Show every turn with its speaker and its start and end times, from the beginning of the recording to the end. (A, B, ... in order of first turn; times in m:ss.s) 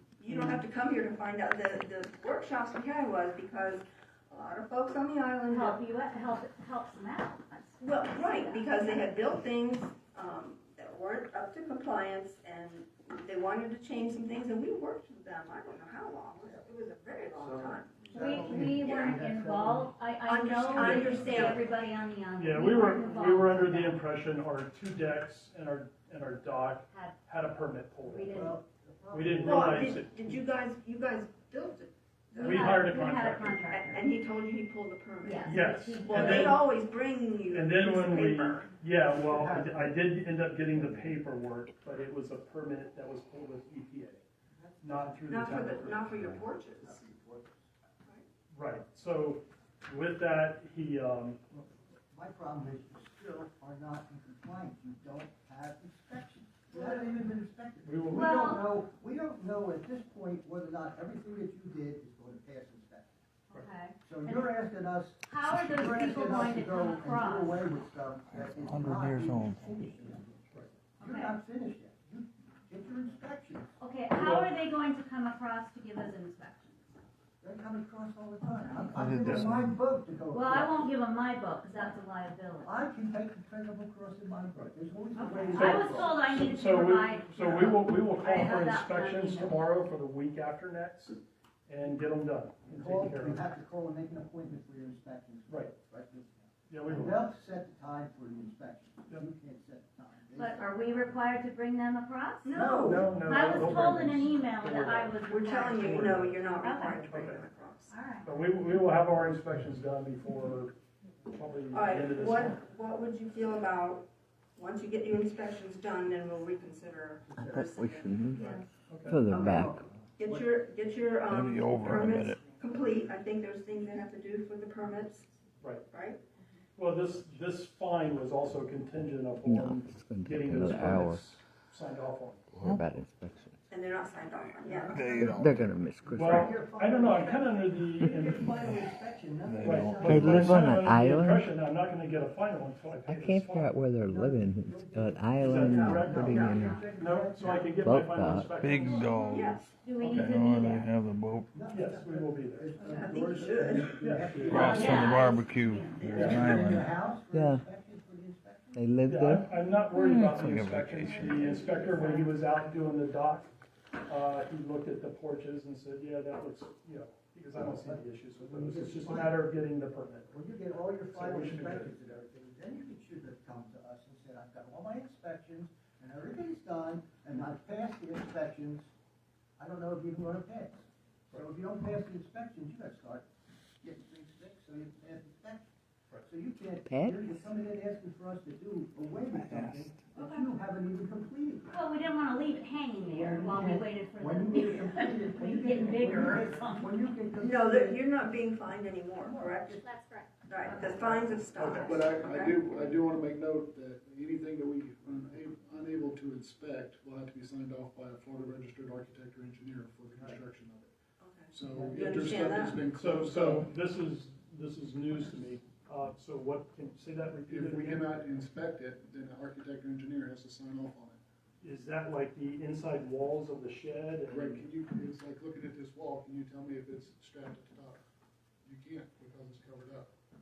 0:00.2-0:05.8 A
0:00.3-0:00.6 B
0:05.5-0:09.0 C
0:07.8-0:19.2 A
0:17.5-0:19.9 D
0:18.1-0:24.0 C
0:20.2-0:21.7 A
0:20.7-0:21.7 D
0:22.4-0:28.6 B
0:26.9-0:27.2 C
0:28.0-0:28.6 C
0:28.3-0:30.0 D
0:29.1-0:30.3 B
0:29.4-0:32.9 A
0:32.4-0:33.7 B
0:32.4-0:34.1 C
0:33.6-0:38.7 A
0:35.2-0:36.2 C
0:35.4-0:36.6 B
0:37.5-0:44.2 B
0:39.1-0:41.1 D
0:44.5-0:45.3 D
0:44.8-0:46.2 B
0:45.3-0:47.0 A
0:46.1-0:47.6 D
0:48.5-0:51.4 B
0:51.5-1:03.1 D
0:57.8-0:58.5 B
0:58.2-0:58.6 C
1:03.5-1:04.5 C
1:04.0-1:13.7 D
1:05.2-1:07.6 C
1:08.3-1:09.9 E
1:11.0-1:11.3 C
1:13.8-1:17.0 C
1:14.1-1:14.5 B
1:17.4-1:20.8 D
1:18.6-1:19.0 C
1:18.8-1:19.8 E
1:19.2-1:19.5 B
1:20.3-1:22.7 C
1:22.6-1:26.2 D
1:25.2-1:29.6 C
1:25.5-1:33.4 B
1:32.7-1:41.2 D
1:36.7-1:37.2 B
1:40.3-1:42.6 C
1:42.4-1:43.1 A
1:42.6-1:46.5 B
1:43.1-1:46.0 C
1:45.2-1:48.0 A
1:46.6-1:47.0 C
1:47.0-1:47.4 B
1:47.9-1:48.3 C
1:48.2-1:52.6 B
1:51.7-1:58.6 A
1:57.3-1:57.7 D
1:57.4-1:58.5 F
1:58.9-1:59.2 B
1:59.0-1:59.8 F
1:59.3-2:05.3 A
1:59.3-2:00.5 D
2:01.3-2:02.4 E
2:05.6-2:05.8 B
2:05.9-2:06.2 A
2:06.8-2:12.5 B
2:09.4-2:11.3 F
2:12.5-2:12.8 E
2:12.6-2:13.6 F
2:13.7-2:15.2 A
2:14.6-2:20.6 D
2:14.9-2:15.6 E
2:15.2-2:16.6 F
2:16.1-2:18.6 B
2:19.4-2:20.6 E
2:19.6-2:23.8 B
2:20.0-2:21.4 F
2:23.0-2:26.8 F
2:24.0-2:27.7 D
2:25.4-2:29.1 B
2:25.6-2:26.8 A
2:27.8-2:28.6 F
2:28.5-2:31.5 E
2:28.8-2:30.9 C
2:29.3-2:29.7 A
2:30.0-2:30.4 B
2:31.5-2:35.3 D
2:31.7-2:32.7 B
2:32.8-2:33.1 C
2:32.8-2:33.9 A
2:33.6-2:35.0 B
2:34.4-2:36.9 E
2:34.6-2:36.3 C
2:36.0-2:38.8 D
2:36.1-2:36.4 B
2:37.3-2:37.6 F
2:38.7-2:40.6 F
2:39.0-2:43.5 B
2:40.4-2:41.4 E
2:41.0-2:42.2 C
2:41.4-2:42.3 D
2:44.0-2:50.3 B
2:47.5-2:49.4 D
2:50.3-2:58.9 D
2:51.1-2:51.9 B
2:59.6-3:03.2 D
3:03.8-3:05.7 D
3:06.2-3:11.7 D
3:06.8-3:07.4 F
3:09.3-3:10.0 E
3:10.2-3:10.4 C
3:11.7-3:17.1 C
3:13.0-3:18.0 D
3:17.4-3:19.8 A
3:19.2-3:19.8 D
3:19.8-3:21.0 C
3:20.5-3:23.0 A
3:21.5-3:22.0 B
3:21.7-3:30.9 G
3:30.1-3:30.4 D
3:31.2-3:32.8 A
3:31.5-3:33.7 G
3:32.9-3:38.2 B
3:37.5-3:41.2 G
3:41.6-3:44.7 B
3:44.3-3:48.0 G
3:48.6-3:50.1 G